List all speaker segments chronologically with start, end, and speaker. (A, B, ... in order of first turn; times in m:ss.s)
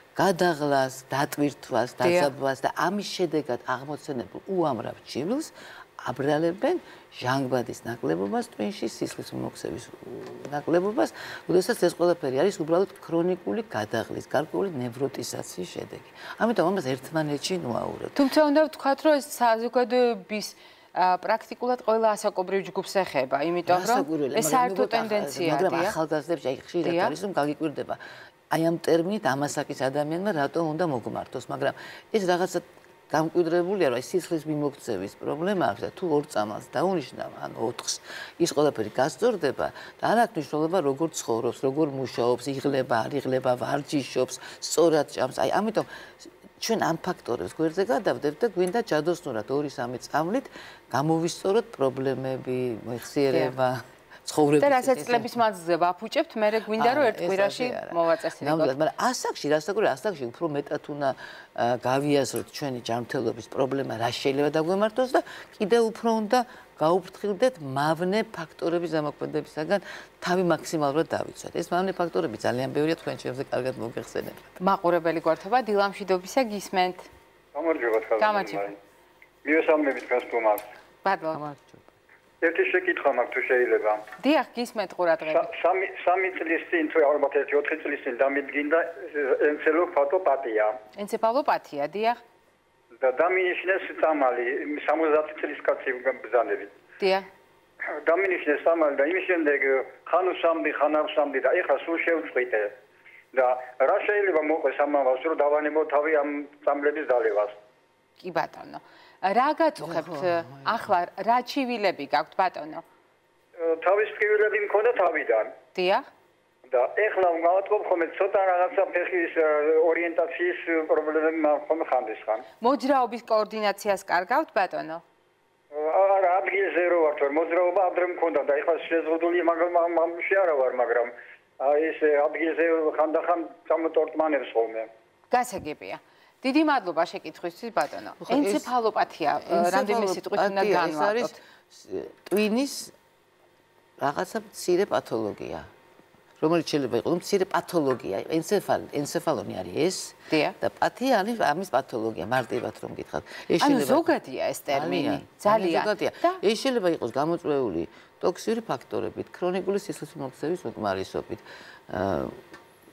0:00.1-0:18.2 A
0:02.0-0:02.3 B
0:18.1-0:25.9 B
0:23.6-0:55.3 A
0:26.8-0:27.1 B
0:54.6-0:58.7 B
0:56.8-1:14.6 A
1:14.6-1:17.1 B
1:17.5-1:18.8 C
1:18.2-1:18.7 B
1:19.4-1:20.6 C
1:21.0-1:21.4 B
1:21.3-1:21.8 A
1:22.4-1:24.0 C
1:24.2-1:25.5 B
1:25.3-1:30.8 C
1:31.0-1:32.2 B
1:33.0-1:36.7 C
1:37.0-1:37.3 B
1:38.0-1:42.7 C
1:43.3-1:47.5 C
1:48.2-1:52.8 B
1:49.8-1:50.7 A
1:53.6-1:55.5 C
1:55.7-1:56.1 B
1:56.7-2:02.4 C
2:02.6-2:05.0 B
2:05.7-2:14.9 C
2:15.3-2:21.4 B
2:18.2-2:18.7 A
2:19.4-2:22.9 A
2:24.0-2:25.7 A
2:26.4-2:34.1 A
2:30.3-2:30.6 B
2:33.6-2:36.4 B
2:34.7-2:42.4 A